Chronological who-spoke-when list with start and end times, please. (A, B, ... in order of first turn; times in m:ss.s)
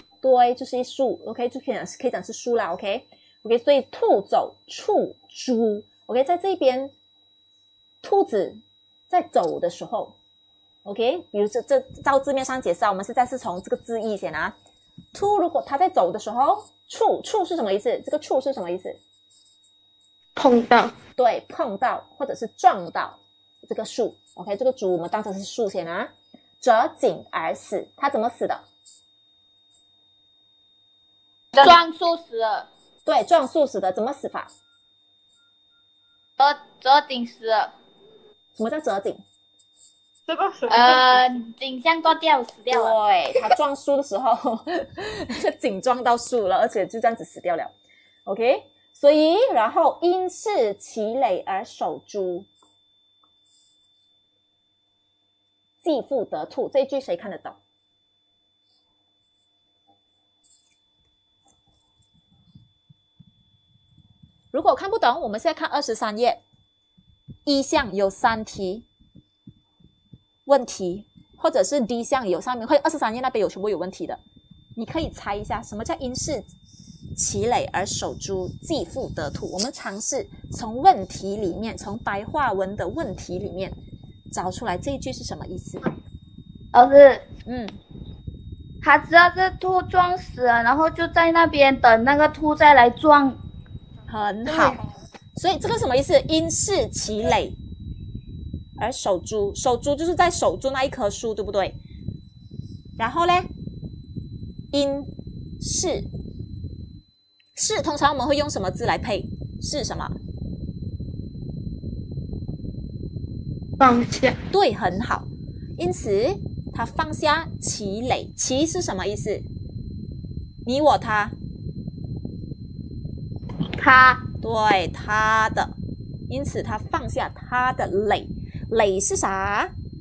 0:00.2-0:06.9 A
0:08.0-0:10.2 A
0:10.8-0:14.5 A
0:15.1-0:19.0 A
0:20.3-0:20.9 B
0:21.2-0:28.6 A
0:31.6-0:32.7 C
0:33.0-0:34.5 A
0:36.4-0:37.7 C
0:38.6-0:39.2 A
0:40.3-0:41.0 B
0:40.7-0:42.9 C
0:42.7-0:47.7 A
0:48.2-0:52.5 A
0:55.8-0:57.6 A
1:04.5-1:06.4 A
1:07.4-1:08.8 A
1:10.4-1:14.2 A
1:14.8-1:16.4 A
1:17.1-1:23.8 A
1:24.3-1:25.9 A
1:26.7-1:27.2 C
1:27.4-1:27.8 A
1:28.8-1:33.4 C
1:34.1-1:34.8 A
1:35.4-1:37.6 A
1:38.8-1:41.8 A
1:43.0-1:43.5 A
1:44.7-1:46.1 A
1:47.5-1:50.1 A
1:53.8-1:54.4 B
1:54.5-1:59.4 A
2:00.6-2:01.3 A
2:03.8-2:04.2 C
2:04.4-2:05.7 A
2:06.3-2:09.7 A